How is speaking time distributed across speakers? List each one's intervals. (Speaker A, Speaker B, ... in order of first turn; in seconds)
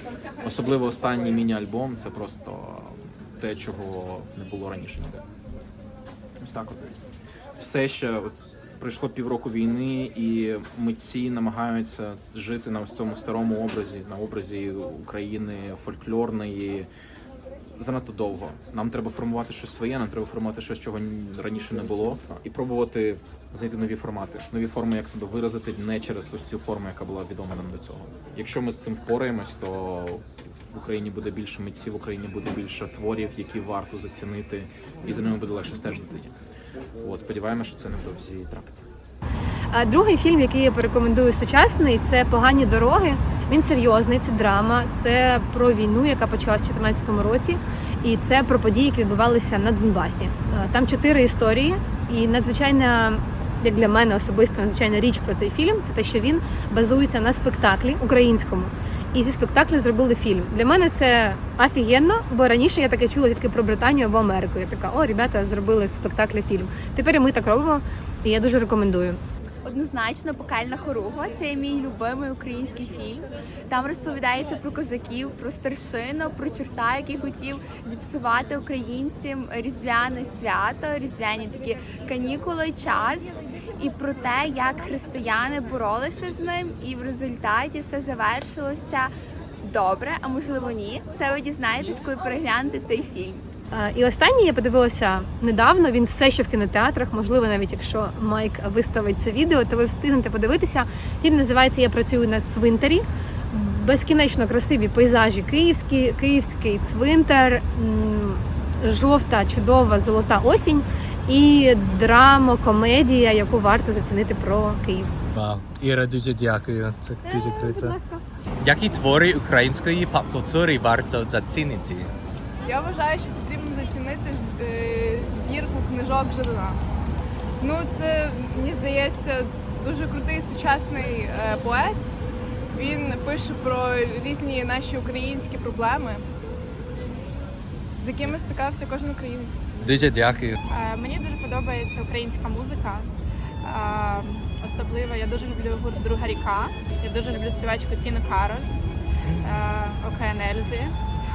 Speaker A: 0.4-5.2, 6.4-7.0, 7.6-16.9, 17.8-36.3, 37.0-38.9
Speaker B: 39.7-69.2, 93.7-115.2, 117.2-118.2
Speaker C: 69.6-93.4
Speaker D: 115.3-118.0, 118.6-122.1, 139.8-140.6, 149.3-149.6
Speaker E: 122.6-126.8, 127.6-132.0, 132.7-136.2, 138.0-139.6
Speaker F: 140.7-143.1, 143.6-148.7, 149.4-150.9